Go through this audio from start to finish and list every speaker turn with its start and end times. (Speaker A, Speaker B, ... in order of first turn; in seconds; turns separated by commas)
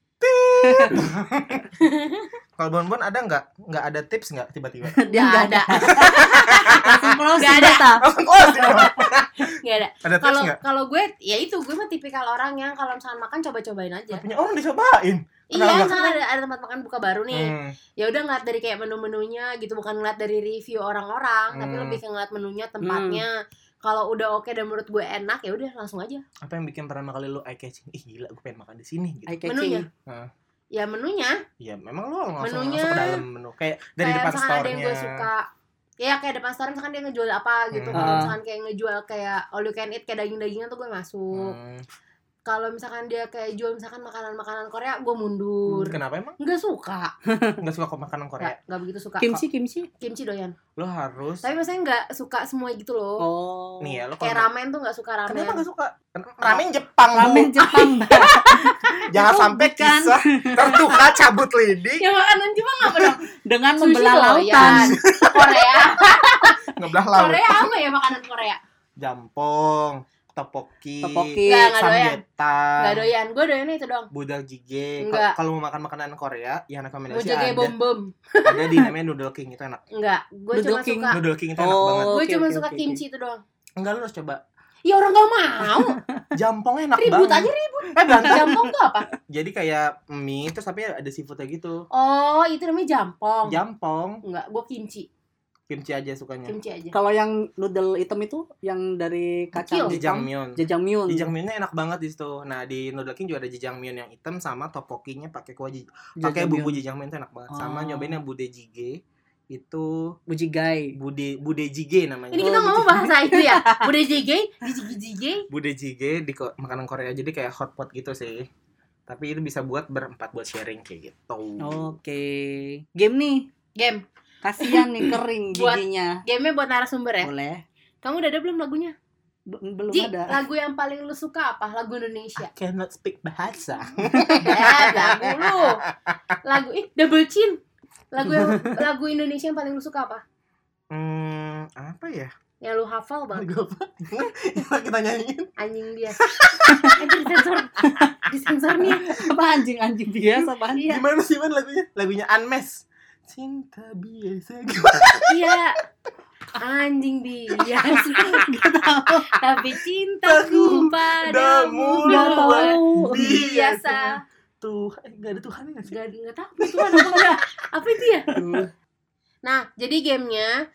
Speaker A: 0.2-1.7, Speaker B: 0.6-1.0, Speaker C: 1.8-2.3, Speaker A: 2.6-5.0, Speaker B: 4.9-9.1, Speaker C: 5.1-8.0, Speaker A: 5.9-7.0, Speaker A: 7.6-9.5, Speaker C: 9.5-14.2, Speaker A: 10.0-10.6, Speaker A: 14.1-16.2, Speaker C: 15.5-26.2, Speaker A: 17.3-17.8, Speaker A: 21.5-22.0, Speaker B: 22.8-23.2, Speaker A: 26.4-29.4, Speaker B: 29.3-29.9, Speaker C: 29.4-29.9, Speaker C: 30.7-31.4, Speaker A: 31.6-35.3, Speaker C: 32.4-33.2, Speaker C: 34.0-35.4, Speaker C: 36.0-41.6, Speaker A: 37.7-38.3, Speaker B: 37.9-38.3, Speaker A: 41.3-41.8, Speaker C: 42.5-47.1, Speaker A: 45.7-46.4, Speaker A: 47.6-48.5, Speaker C: 48.4-49.4, Speaker B: 49.2-49.9, Speaker C: 50.0-50.5, Speaker A: 50.8-51.5, Speaker C: 51.4-53.2, Speaker B: 53.2-54.0, Speaker A: 53.8-54.5, Speaker C: 54.2-55.6, Speaker A: 55.3-57.7, Speaker B: 57.1-60.9, Speaker C: 57.8-59.0, Speaker A: 59.1-62.0, Speaker C: 62.0-63.2, Speaker B: 63.4-65.0, Speaker C: 63.8-68.6, Speaker A: 64.6-67.7, Speaker A: 69.0-73.1, Speaker B: 71.0-71.7, Speaker C: 71.4-72.2, Speaker C: 72.8-74.1, Speaker A: 74.1-77.7, Speaker C: 75.0-75.3, Speaker C: 77.1-78.9, Speaker A: 78.4-79.8, Speaker C: 79.9-81.2, Speaker B: 80.5-83.0, Speaker A: 81.1-82.2, Speaker C: 82.0-83.4, Speaker A: 83.8-84.4, Speaker C: 84.8-86.0, Speaker A: 86.3-88.6, Speaker C: 87.0-89.1, Speaker A: 89.3-91.9, Speaker C: 91.9-93.6, Speaker A: 93.5-94.2, Speaker C: 94.2-95.1, Speaker A: 95.7-96.6, Speaker C: 96.5-96.9, Speaker B: 96.9-101.3, Speaker C: 99.5-100.0, Speaker A: 99.8-109.0, Speaker B: 106.2-106.8, Speaker B: 107.5-108.2, Speaker A: 109.5-110.2, Speaker B: 110.3-111.0, Speaker A: 111.0-112.9, Speaker C: 112.3-115.5, Speaker B: 112.4-113.9, Speaker A: 115.5-118.5, Speaker A: 119.1-121.9, Speaker B: 121.6-123.5, Speaker C: 123.8-124.0, Speaker B: 124.4-126.2, Speaker C: 124.6-127.3, Speaker B: 127.2-127.6, Speaker C: 128.0-128.9, Speaker B: 129.5-130.4, Speaker C: 129.9-132.5, Speaker A: 132.4-136.3, Speaker C: 134.3-135.8, Speaker C: 136.4-137.6, Speaker C: 138.1-140.2, Speaker B: 138.2-138.7, Speaker A: 140.9-142.3, Speaker C: 142.6-143.5, Speaker A: 143.3-145.5, Speaker C: 145.6-146.2, Speaker A: 146.1-147.0, Speaker B: 146.6-147.0, Speaker C: 146.9-149.2, Speaker B: 147.8-148.1, Speaker B: 148.9-150.9, Speaker C: 150.7-151.0, Speaker A: 150.9-155.4, Speaker C: 155.2-155.8, Speaker C: 156.6-158.3, Speaker A: 157.8-158.4, Speaker B: 157.9-159.3, Speaker C: 159.3-164.2, Speaker A: 160.2-165.9, Speaker B: 162.1-163.2, Speaker C: 165.9-168.3, Speaker A: 166.6-167.3, Speaker B: 167.0-167.2, Speaker B: 168.3-168.7, Speaker A: 168.3-168.7, Speaker C: 169.4-170.6